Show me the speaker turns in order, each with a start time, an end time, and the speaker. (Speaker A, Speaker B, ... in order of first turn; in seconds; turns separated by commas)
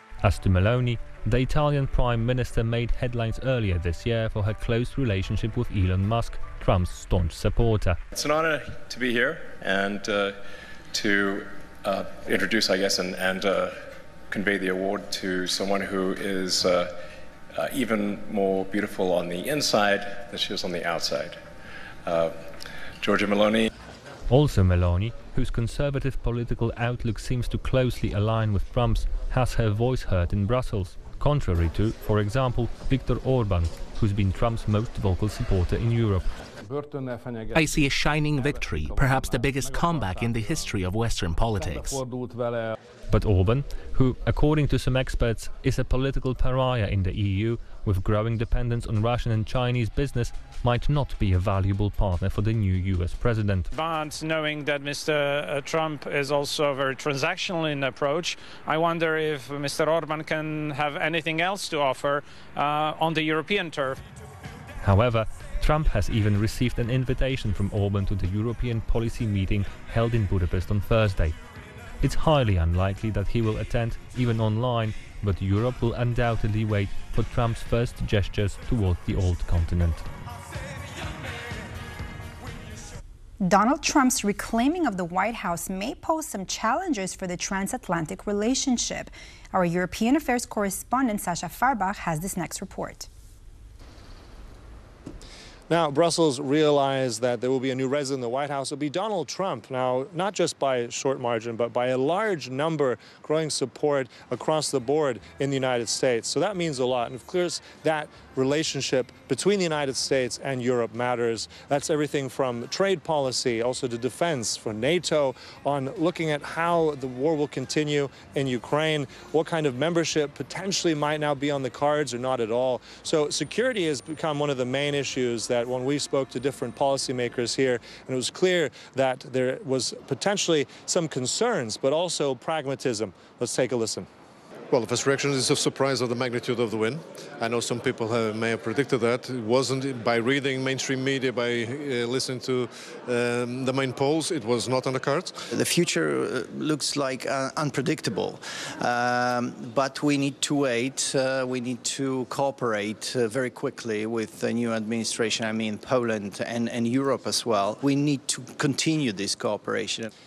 Speaker A: 0.2-8.0, Speaker B: 8.1-17.0, Speaker B: 17.5-21.4, Speaker B: 22.1-22.5, Speaker B: 23.0-23.7, Speaker A: 24.3-36.3, Speaker C: 37.5-42.0, Speaker A: 43.1-53.7, Speaker D: 53.7-64.0, Speaker A: 64.8-71.4, Speaker A: 72.0-80.0, Speaker E: 83.4-93.1, Speaker F: 95.7-134.1, Speaker G: 134.7-145.3, Speaker H: 145.5-160.1